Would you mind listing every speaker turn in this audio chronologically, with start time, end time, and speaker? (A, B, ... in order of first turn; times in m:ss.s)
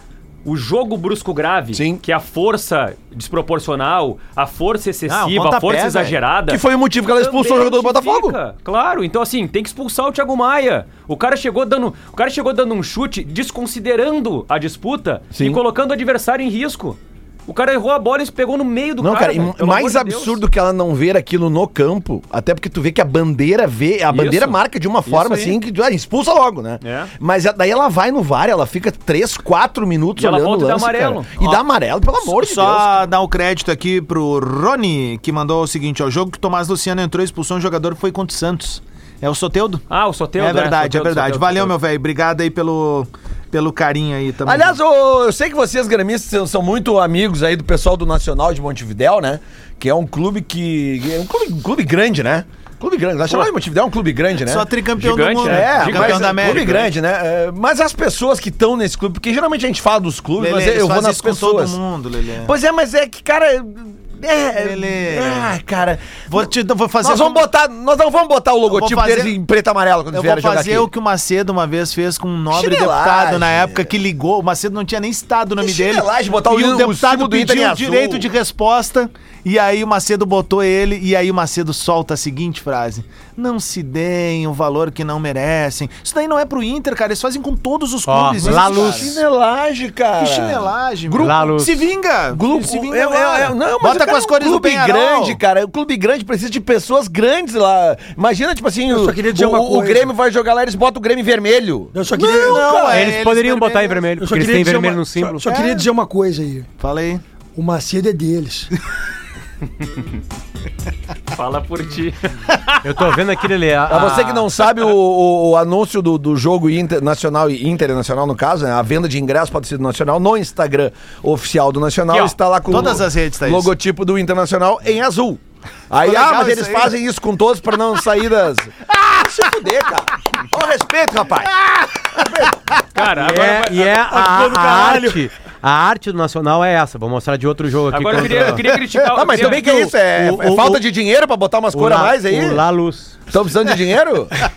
0:00.4-0:06.6 A
0:01.7-0:02.0 B
0:05.1-0:06.2 C
0:06.5-0:08.4 B
0:07.2-0:20.4 A
0:15.3-0:15.6 B
0:19.0-0:33.1 B
0:24.1-0:25.6 A
0:26.8-0:27.1 A
0:30.2-0:31.4 A
0:32.2-0:39.8 C
0:39.9-0:41.7 A
0:40.4-0:44.8 C
0:44.4-0:54.7 B
0:54.4-0:56.8 C
0:55.0-0:56.9 A
0:55.4-1:01.8 B
1:00.4-1:02.5 C
1:02.4-1:06.5 B
1:04.6-1:05.5 C
1:06.3-1:07.4 C
1:07.0-1:10.9 B
1:08.7-1:09.3 C
1:10.1-1:29.1 C
1:12.5-1:13.9 B
1:15.6-1:18.3 B
1:28.1-1:29.2 D
1:28.4-1:31.5 B
1:30.2-1:35.4 C
1:31.2-1:31.8 D
1:32.3-1:43.2 B
1:38.9-1:40.1 E
1:41.9-1:42.7 E
1:42.2-1:44.1 C
1:42.8-1:45.4 D
1:44.2-1:46.7 E
1:45.5-1:45.9 C
1:46.8-1:47.2 C
1:47.6-1:48.7 E
1:51.3-1:52.6 A
1:52.8-1:54.5 D
1:53.9-2:11.6 B
2:02.1-2:02.4 D
2:02.7-2:03.7 C
2:06.0-2:06.9 C
2:12.1-2:12.5 B
2:12.9-2:13.9 A
2:13.2-2:18.6 D
2:13.9-2:15.3 E
2:17.9-2:19.6 A
2:19.1-2:22.6 B
2:19.3-2:20.8 D
2:21.7-2:23.2 D
2:23.3-2:24.3 B